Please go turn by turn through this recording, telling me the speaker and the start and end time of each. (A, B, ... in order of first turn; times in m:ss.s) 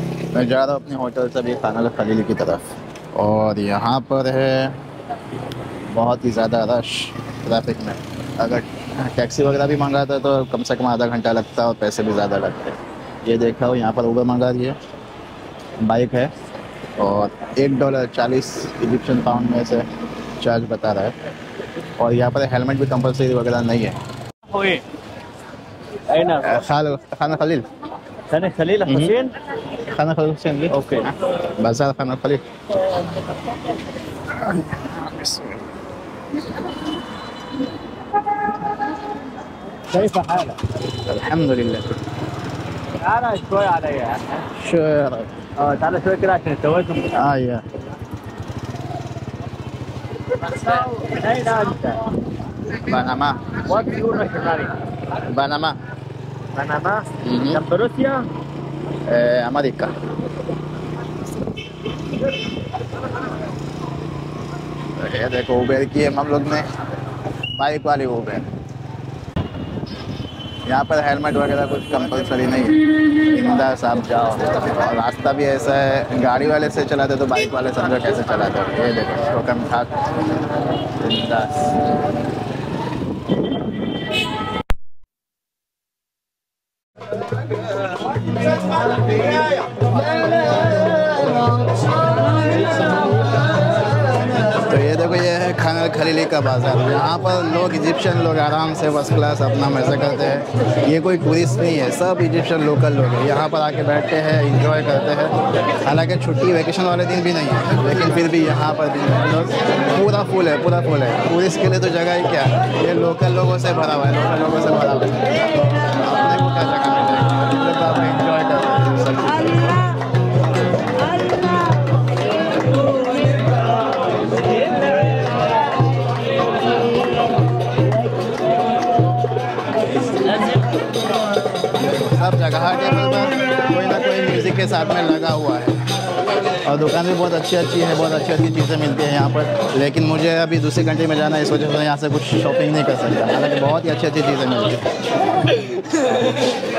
0:00.3-0:02.6 A
0:03.1-0:04.8 A
0:05.9-0:14.8 A
0:15.8-0:16.3 A
0:17.0-0:19.8 A
0:20.4-0:21.1 A
0:22.0-0:24.0 A
0:24.5-0:24.8 B
0:26.1-0:26.6 B
0:26.4-0:27.6 A
0:28.3-0:29.3 B
0:28.9-0:29.1 A
0:29.7-0:32.4 A
0:30.7-0:31.1 B
0:34.4-0:35.7 A
0:39.9-0:40.6 B
0:41.0-0:42.0 A
0:43.0-0:44.4 B
0:44.5-0:45.3 A
0:45.6-0:47.1 B
0:47.1-0:47.6 A
0:50.2-0:52.1 B
0:52.8-0:53.6 A
0:53.6-0:54.8 B
0:55.2-0:55.8 A
0:56.5-0:58.3 B
0:57.2-0:57.6 A
0:59.0-0:59.9 A
1:05.0-1:06.6 A
1:07.5-1:08.5 A
1:10.6-1:19.9 A
1:21.0-1:21.8 A
1:34.6-1:45.3 A
1:45.8-1:59.9 A
2:11.8-2:15.8 A
2:16.6-2:24.9 A